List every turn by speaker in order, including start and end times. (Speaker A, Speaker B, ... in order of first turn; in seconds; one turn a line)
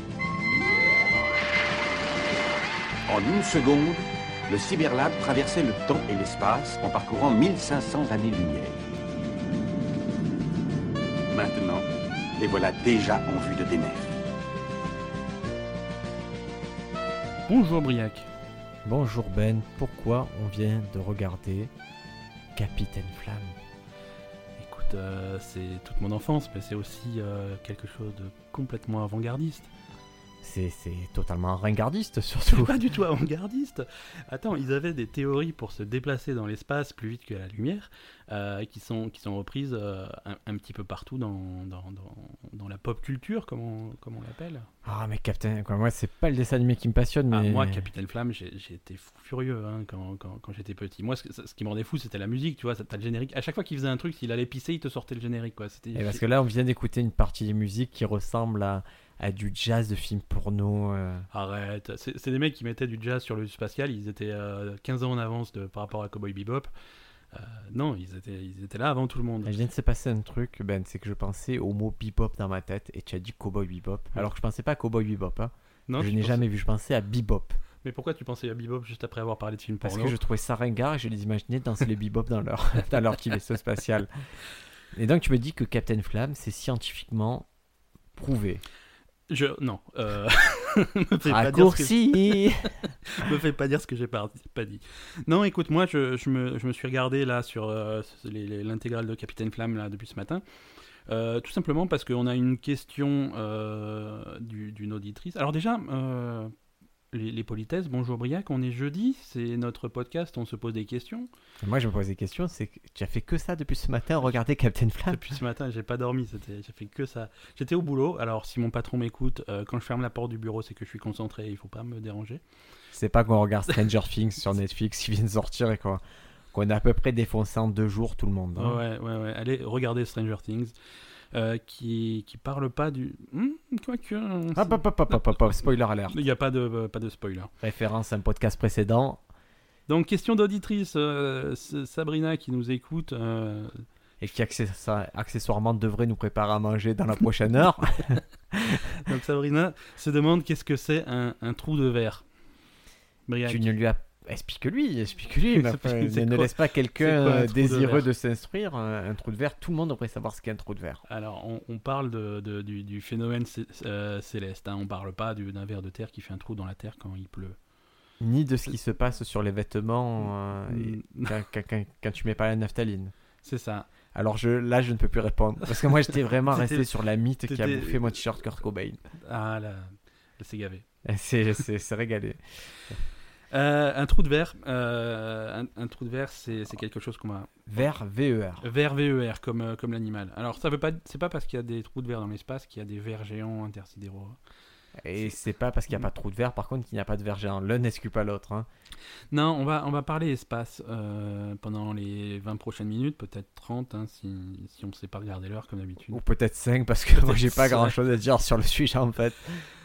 Speaker A: 3.1-8.9
Speaker A: 11.3-14.2
Speaker B: 17.5-18.3
Speaker C: 18.8-21.7
Speaker C: 22.5-23.5
Speaker B: 24.6-29.7
Speaker C: 30.4-32.7
Speaker B: 32.5-44.7
Speaker C: 44.8-47.8
Speaker B: 47.3-56.2
Speaker C: 55.9-61.3
Speaker B: 61.3-66.7
Speaker B: 67.3-69.5
Speaker C: 69.5-77.6
Speaker B: 75.9-76.4
Speaker B: 77.8-80.2
Speaker C: 79.8-84.1
Speaker C: 84.9-87.5
Speaker C: 88.1-88.6
Speaker B: 89.3-100.4
Speaker C: 91.2-92.7
Speaker B: 101.1-106.5
Speaker B: 107.1-111.3
Speaker C: 111.6-115.2
Speaker B: 115.1-122.4
Speaker C: 122.9-126.0
Speaker C: 126.5-128.8
Speaker B: 128.6-130.7
Speaker B: 131.3-135.4
Speaker C: 134.5-136.2
Speaker B: 136.1-137.5
Speaker C: 137.6-139.2
Speaker B: 139.9-143.8
Speaker C: 144.2-149.0
Speaker B: 149.0-152.2
Speaker B: 153.3-153.7
Speaker C: 153.4-161.0
Speaker B: 155.5-158.1
Speaker B: 161.1-167.6
Speaker C: 168.2-173.1
Speaker B: 170.7-171.4
Speaker B: 173.4-173.9
Speaker C: 174.1-179.0
Speaker B: 176.5-176.9
Speaker B: 177.5-178.2
Speaker B: 179.2-180.8
Speaker C: 181.0-183.0
Speaker B: 183.5-187.5
Speaker C: 187.7-188.6
Speaker B: 188.6-194.4
Speaker C: 195.0-198.7
Speaker B: 199.3-206.2
Speaker C: 206.1-209.6
Speaker B: 207.2-207.9